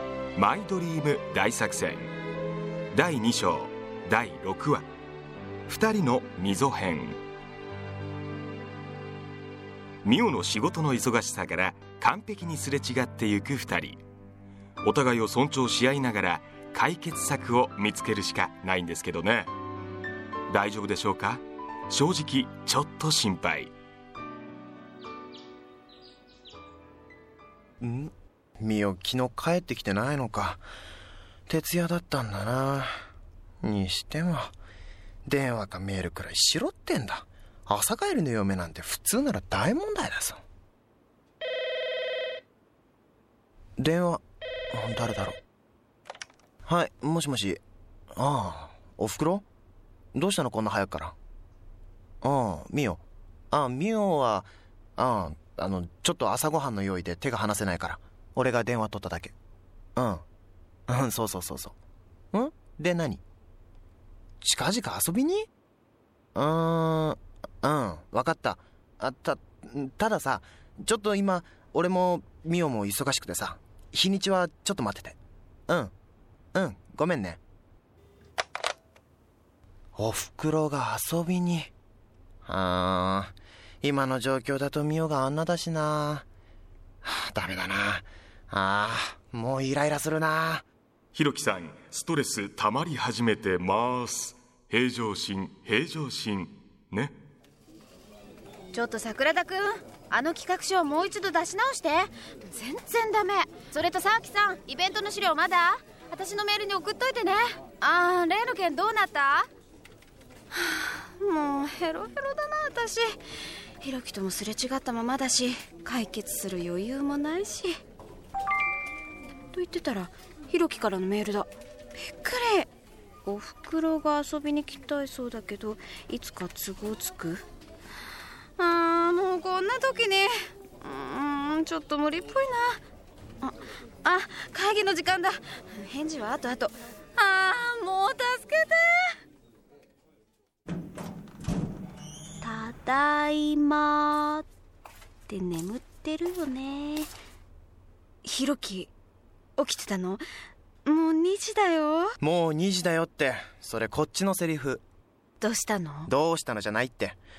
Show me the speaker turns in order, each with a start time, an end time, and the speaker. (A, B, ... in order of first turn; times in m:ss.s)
0:00.3-0:02.1 A
0:02.9-0:04.9 A
0:05.7-0:07.2 A
0:10.0-0:14.0 A
0:14.8-0:19.5 A
0:20.5-0:23.7 A
0:27.8-0:30.6 B
0:31.5-0:32.9 B
0:33.6-0:34.5 B
0:35.2-0:40.4 B
0:43.8-0:45.4 B
0:46.6-0:47.6 B
0:48.2-0:49.4 B
0:50.1-0:51.2 B
0:52.2-0:59.3 B
1:00.0-1:00.2 B
1:00.9-1:01.8 B
1:02.3-1:03.2 B
1:04.4-1:05.5 B
1:06.4-1:15.2 B
1:15.7-1:15.9 B
1:16.5-1:17.4 B
1:20.0-1:21.7 B
1:22.4-1:26.3 B
1:27.0-1:30.7 B
1:31.1-1:37.2 A
1:38.7-1:49.5 C
1:50.5-1:53.2 C
1:53.8-1:57.8 C
1:59.5-2:02.7 C
2:03.2-2:07.4 C
2:08.6-2:12.8 C
2:13.4-2:19.2 C
2:22.4-2:24.5 C
2:25.3-2:27.1 C
2:28.2-2:28.9 C
2:29.6-2:30.2 C
2:30.8-2:32.1 C
2:32.2-2:34.8 B
2:35.4-2:36.1 C
2:36.1-2:37.2 B